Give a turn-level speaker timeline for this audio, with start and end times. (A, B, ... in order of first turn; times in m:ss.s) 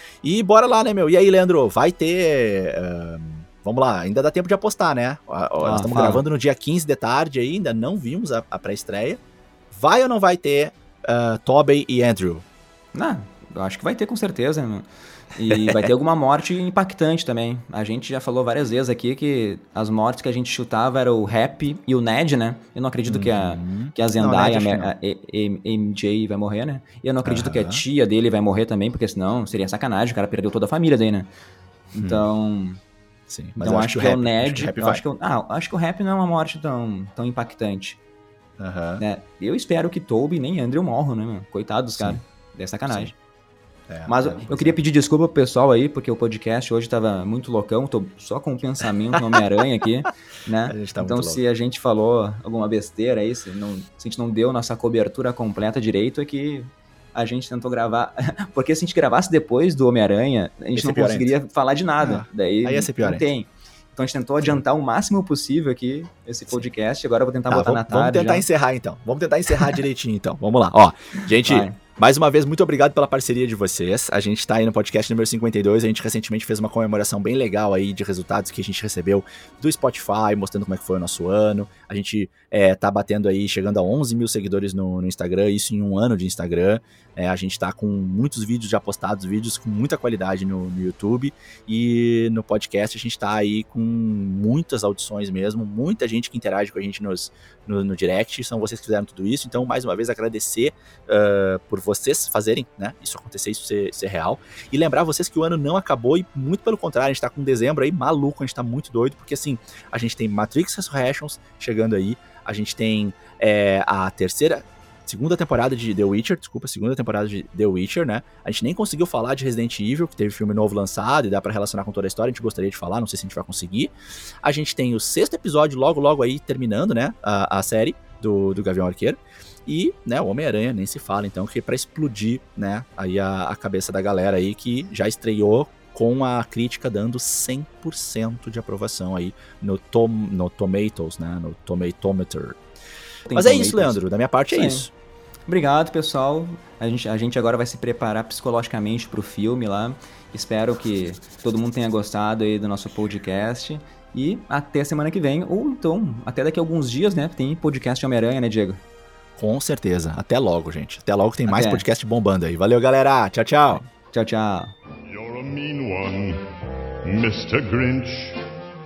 0:00.2-0:09.2 A
0:05.6-0:06.2 B
0:09.7-0:12.4 A
0:12.9-0:31.3 B
0:15.5-0:15.9 A
0:23.1-0:24.9 A
0:27.2-0:27.8 A
0:31.9-0:32.8 B
0:31.9-0:32.2 A
0:33.3-0:35.0 A
0:33.6-0:38.0 B
0:38.6-0:39.0 A
0:39.0-0:43.1 B
0:43.9-0:44.8 A
0:44.0-1:08.4 B
0:50.7-0:51.4 A
1:00.8-1:01.3 A
1:02.0-1:03.3 A
1:07.5-2:22.6 A
1:11.4-1:11.8 B
2:23.3-2:24.0 B
2:23.3-2:24.9 A
2:24.5-2:24.9 B
2:25.5-2:38.8 B
2:39.4-2:43.8 A
2:41.5-2:41.8 B
2:43.8-2:44.7 B
2:45.0-2:46.4 C
2:47.0-2:48.4 C